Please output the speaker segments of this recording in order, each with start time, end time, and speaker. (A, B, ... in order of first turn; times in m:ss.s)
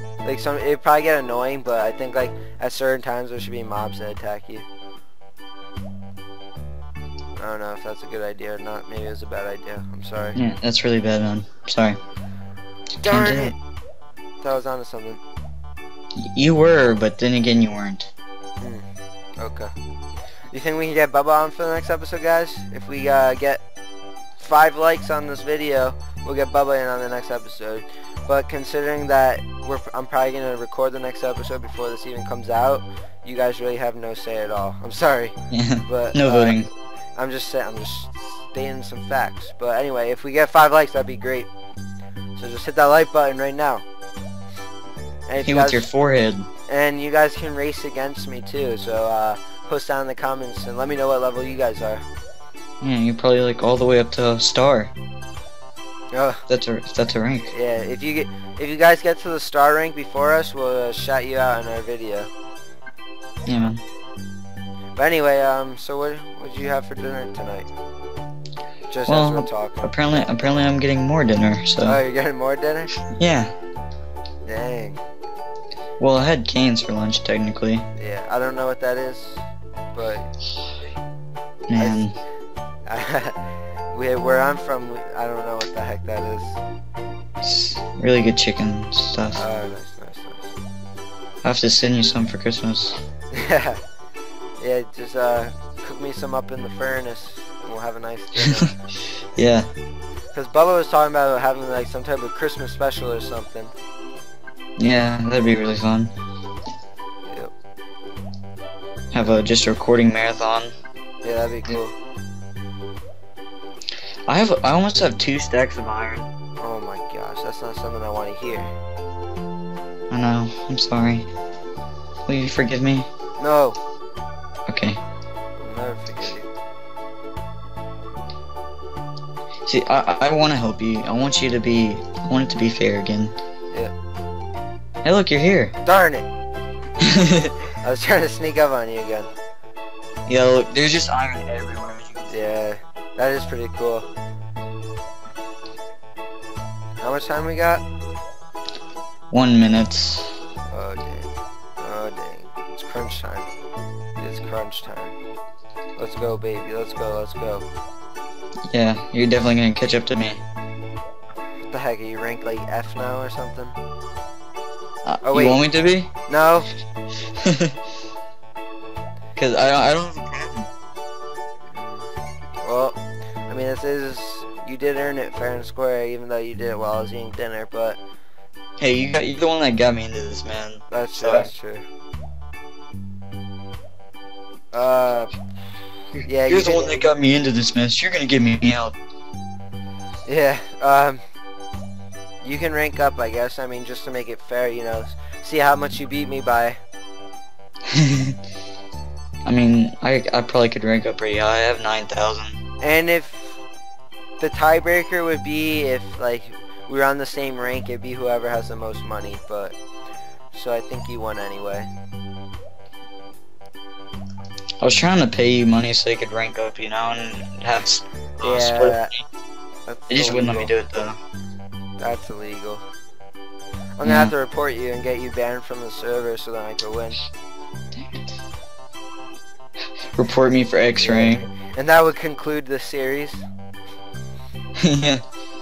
0:00.2-0:04.7 A
0:07.4-0:10.4 A
0:10.4-0:12.0 B
0:13.0-0:13.6 A
0:13.0-0:13.5 B
0:14.4-0:15.2 A
0:16.3-0:18.1 B
0:18.6-0:18.9 A
0:19.4-0:19.7 A
0:20.5-0:23.6 A
0:24.4-0:35.3 A
0:35.5-0:36.7 B
0:35.8-0:41.5 A
0:42.4-0:43.8 A
0:45.3-0:45.9 A
0:45.4-0:46.5 B
0:46.7-0:52.0 A
0:52.8-0:54.9 B
0:56.1-0:56.4 A
0:56.5-0:57.5 B
0:57.5-1:02.3 A
1:03.5-1:03.8 B
1:05.0-1:07.7 A
1:08.9-1:10.7 A
1:09.1-1:12.0 B
1:11.8-1:12.9 A
1:13.1-1:13.5 B
1:14.4-1:15.0 A
1:16.0-1:17.9 B
1:18.0-1:19.4 A
1:19.9-1:20.3 A
1:21.7-1:22.2 B
1:21.8-1:22.1 A
1:22.9-1:26.6 A
1:27.4-1:29.4 B
1:29.4-1:30.6 A
1:31.4-1:33.0 B
1:33.3-1:33.8 A
1:34.6-1:38.7 A
1:38.4-1:38.7 B
1:39.4-1:39.7 B
1:40.3-1:43.7 A
1:44.8-1:46.1 B
1:49.1-1:50.7 B
1:51.2-1:51.9 A
1:54.3-1:56.3 B
1:56.6-1:58.7 A
2:00.1-2:01.3 B
2:02.3-2:03.1 B
2:03.4-2:03.8 A
2:04.7-2:05.0 B
2:05.6-2:06.5 A
2:09.7-2:13.3 B
2:15.0-2:15.7 B
2:15.8-2:16.3 A
2:17.0-2:17.5 B
2:17.8-2:19.3 A
2:20.3-2:22.3 B
2:22.3-2:24.1 A
2:27.0-2:27.8 A
2:29.3-2:30.4 B
2:30.7-2:33.5 A
2:34.2-2:35.2 A
2:36.0-2:37.7 A
2:38.7-2:40.4 B
2:41.7-2:43.8 A
2:45.0-2:46.1 B
2:45.2-2:45.6 A
2:46.3-2:46.7 A
2:47.4-2:47.8 B
2:49.4-2:50.7 B
2:51.7-2:52.1 A
2:52.6-2:58.0 A
2:58.8-3:01.5 B
3:00.9-3:01.8 A
3:04.7-3:05.3 A
3:06.2-3:07.1 A
3:06.5-3:09.0 B
3:10.3-3:11.2 A
3:12.4-3:16.8 A
3:17.9-3:18.4 B
3:19.5-3:22.6 B
3:22.8-3:23.6 A
3:24.4-3:29.8 A
3:30.5-3:31.9 A
3:34.8-3:39.2 B
3:38.4-3:39.1 A
3:39.9-3:40.7 A
3:40.1-3:41.2 B
3:42.0-3:42.8 A
3:44.0-3:47.2 A
3:44.0-3:44.3 B
3:50.2-3:51.5 B
3:51.0-3:53.5 A
3:54.8-3:55.2 B